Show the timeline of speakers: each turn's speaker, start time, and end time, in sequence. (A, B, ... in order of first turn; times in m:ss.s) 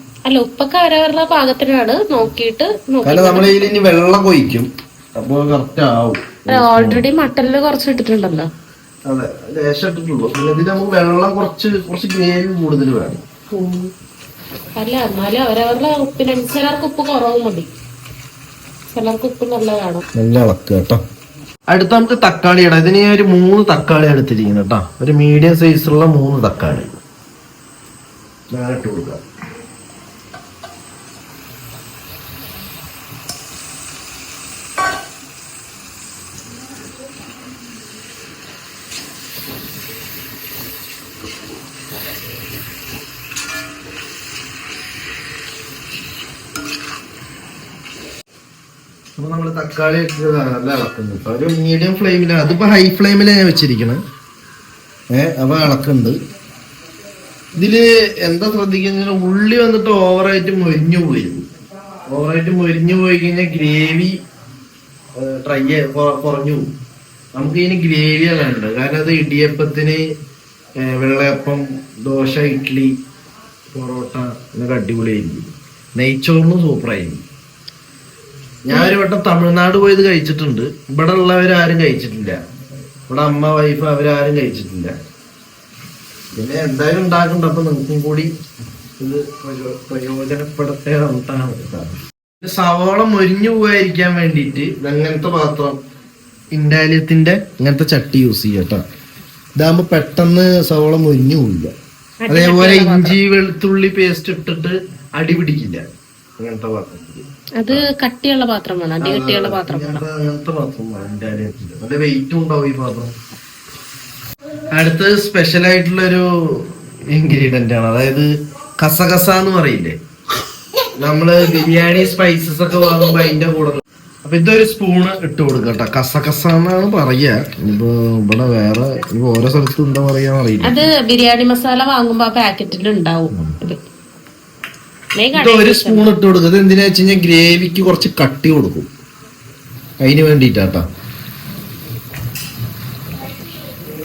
0:00.2-0:03.7 A
0:03.0-0:07.0 B
0:06.5-0:08.5 A
0:09.1-0:13.2 B
0:13.5-0:13.9 A
0:14.8-0:17.7 A
0:18.9-0:20.0 A
0:20.2-0:21.0 B
0:21.7-0:26.9 B
0:28.5-0:29.2 B
0:49.2-0:54.0 B
0:55.1-0:56.2 B
0:57.6-1:01.4 B
1:02.1-1:04.1 B
1:05.2-1:06.7 B
1:07.3-1:10.0 B
1:10.8-1:12.9 B
1:13.7-1:17.2 B
1:18.6-1:22.4 B
1:23.1-1:24.9 B
1:26.4-1:28.3 B
1:29.0-1:35.8 B
1:36.5-1:38.8 B
1:39.6-1:41.7 B
1:42.2-1:43.2 A
1:42.3-1:45.8 B
1:46.4-1:47.9 B
1:47.6-1:50.0 A
1:49.0-1:53.1 B
1:54.7-1:58.3 B
1:58.8-1:59.9 B
2:01.0-2:10.8 B
2:10.6-2:13.8 A
2:15.2-2:16.1 A
2:15.3-2:18.9 B
2:20.0-2:20.8 B